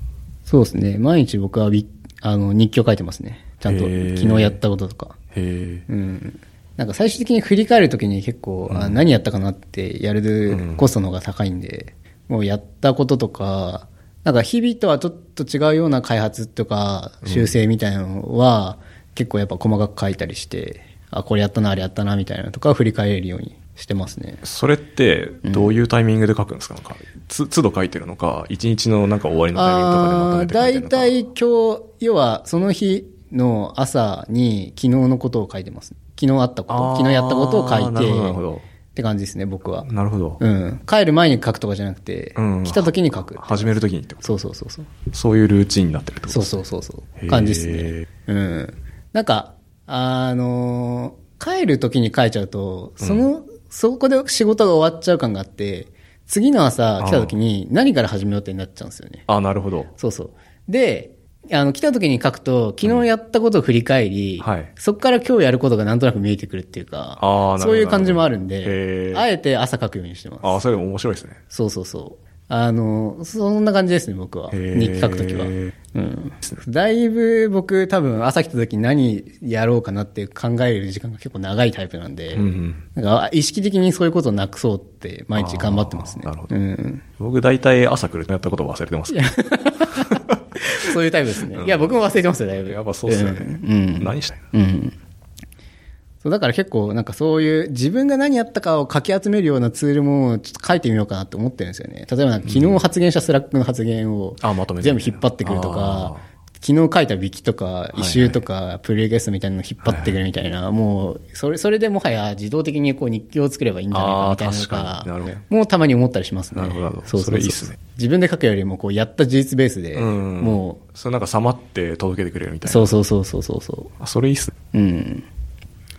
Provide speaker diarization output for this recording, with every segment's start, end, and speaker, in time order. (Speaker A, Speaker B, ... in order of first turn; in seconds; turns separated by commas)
Speaker A: 0.5-5.2, Speaker B: 3.7-4.6, Speaker B: 5.3-5.9, Speaker A: 5.9-24.4, Speaker B: 8.7-9.0, Speaker B: 10.5-10.8, Speaker B: 17.2-17.6, Speaker B: 24.4-31.1, Speaker A: 25.4-25.7, Speaker A: 29.6-38.4, Speaker B: 36.7-38.7, Speaker A: 38.9-39.9, Speaker B: 39.9-40.4, Speaker A: 40.4-44.9, Speaker B: 42.4-44.3, Speaker B: 45.1-46.6, Speaker A: 46.3-59.2, Speaker B: 47.2-48.1, Speaker B: 57.0-57.3, Speaker B: 59.3-59.9, Speaker A: 60.0-70.6, Speaker B: 64.4-64.7, Speaker B: 67.2-69.2, Speaker B: 70.4-71.4, Speaker A: 71.5-87.0, Speaker B: 74.5-75.7, Speaker B: 82.3-82.8, Speaker B: 85.3-86.5, Speaker B: 87.2-89.3, Speaker A: 89.1-95.0, Speaker B: 89.9-90.3, Speaker B: 91.5-92.0, Speaker B: 92.7-94.4, Speaker A: 96.2-120.8, Speaker B: 102.5-102.8, Speaker B: 104.4-106.2, Speaker B: 107.9-108.4, Speaker B: 109.8-110.2, Speaker B: 113.9-115.4, Speaker B: 116.5-117.8, Speaker B: 120.0-123.0, Speaker A: 122.7-123.9, Speaker B: 124.0-124.5, Speaker A: 124.7-125.3